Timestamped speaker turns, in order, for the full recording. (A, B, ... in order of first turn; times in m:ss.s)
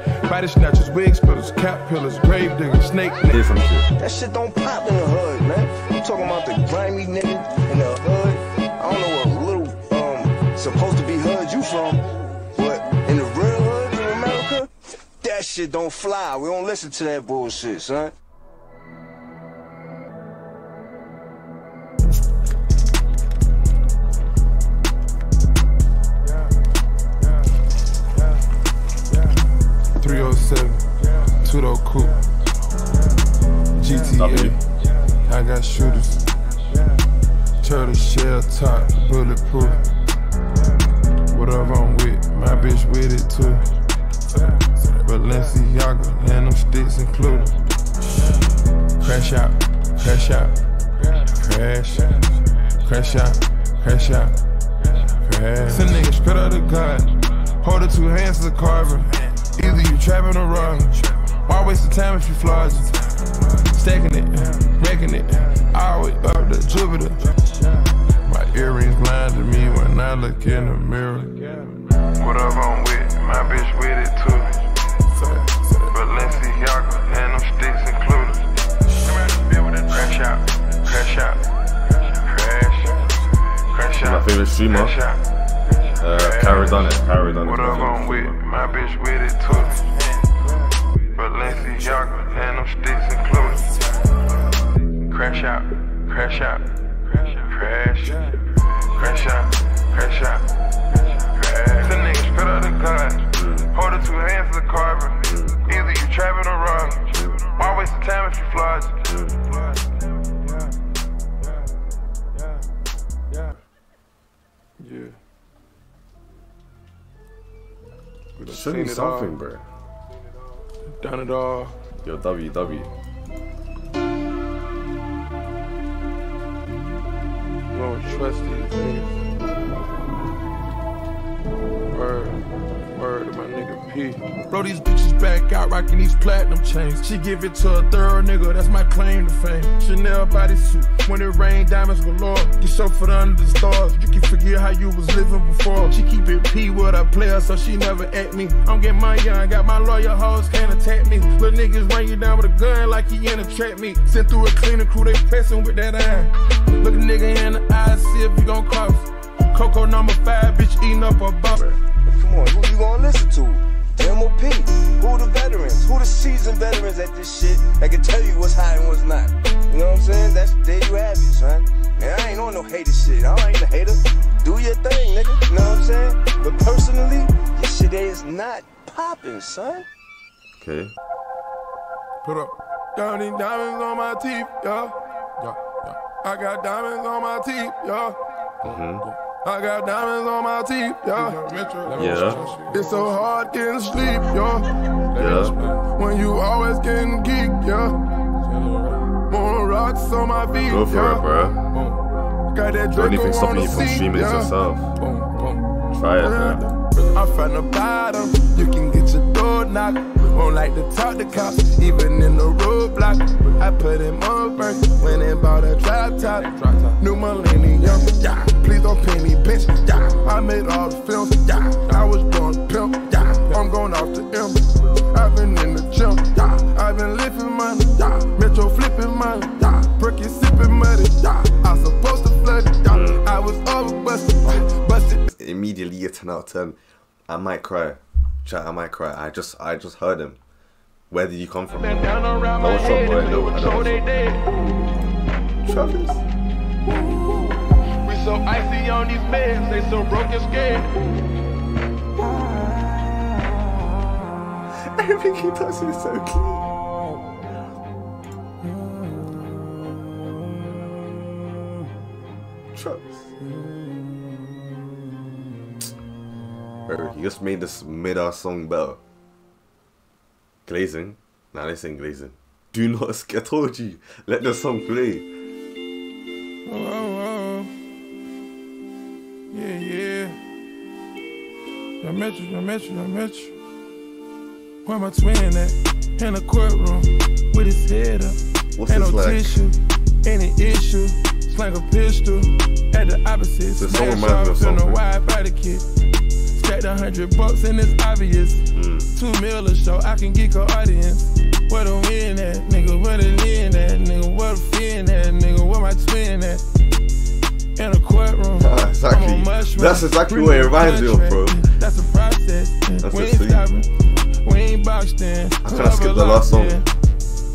0:00.2-0:03.4 A
0:03.3-0:03.9 B
0:04.0-0:18.1 C
0:30.0-0:32.3 A
0:33.8-0:34.6 A
0:34.2-0:34.6 B
0:35.2-0:36.3 A
0:37.6-0:39.9 A
0:41.3-0:43.7 A
0:44.4-0:47.6 A
0:49.0-0:50.6 A
0:51.1-0:54.4 A
0:55.2-1:03.0 A
1:03.7-1:07.5 A
1:08.2-1:21.5 A
1:22.1-1:23.1 A
1:23.6-1:25.2 A
1:24.0-1:25.0 B
1:26.0-1:28.4 B
1:26.0-1:30.0 A
1:31.1-1:34.0 A
1:35.1-1:40.5 A
1:41.1-1:49.8 A
1:43.3-1:43.7 B
1:45.2-1:45.6 B
1:47.1-1:47.5 B
1:49.1-1:49.4 B
1:54.8-1:55.2 A
1:58.4-1:59.4 A
1:58.4-1:59.6 B
2:01.0-2:01.8 A
2:02.0-2:02.9 B
2:07.7-2:09.1 A
2:11.9-2:41.6 A
2:41.5-2:41.8 B
2:42.0-2:59.9 C
3:00.6-3:00.9 B
3:02.2-3:08.2 A
3:08.6-3:09.0 B
3:09.0-3:22.0 A
3:12.0-3:12.4 B
3:15.2-3:15.6 B
3:20.6-3:21.6 B
3:22.5-3:55.2 A
3:22.9-3:24.9 B
3:25.9-3:26.7 B
3:52.9-3:53.2 B
3:55.3-3:56.8 B
3:57.3-4:00.4 B
4:01.1-4:04.0 B
4:01.7-4:04.5 A
4:05.6-4:06.2 B
4:08.0-4:11.0 A
4:14.8-4:16.7 B
4:22.7-4:23.3 B
4:26.9-4:29.0 B
4:30.7-4:35.3 B
4:36.7-4:37.7 A
4:39.5-4:40.4 A
4:42.0-4:43.6 A
4:44.8-4:55.8 A
4:48.8-4:49.6 B
4:53.8-4:55.0 B
4:56.5-5:06.6 A
4:58.7-4:59.1 B
5:07.8-5:13.9 A
5:08.6-5:11.7 B
5:13.0-5:13.7 B
5:14.4-5:16.9 A
5:15.6-5:16.8 B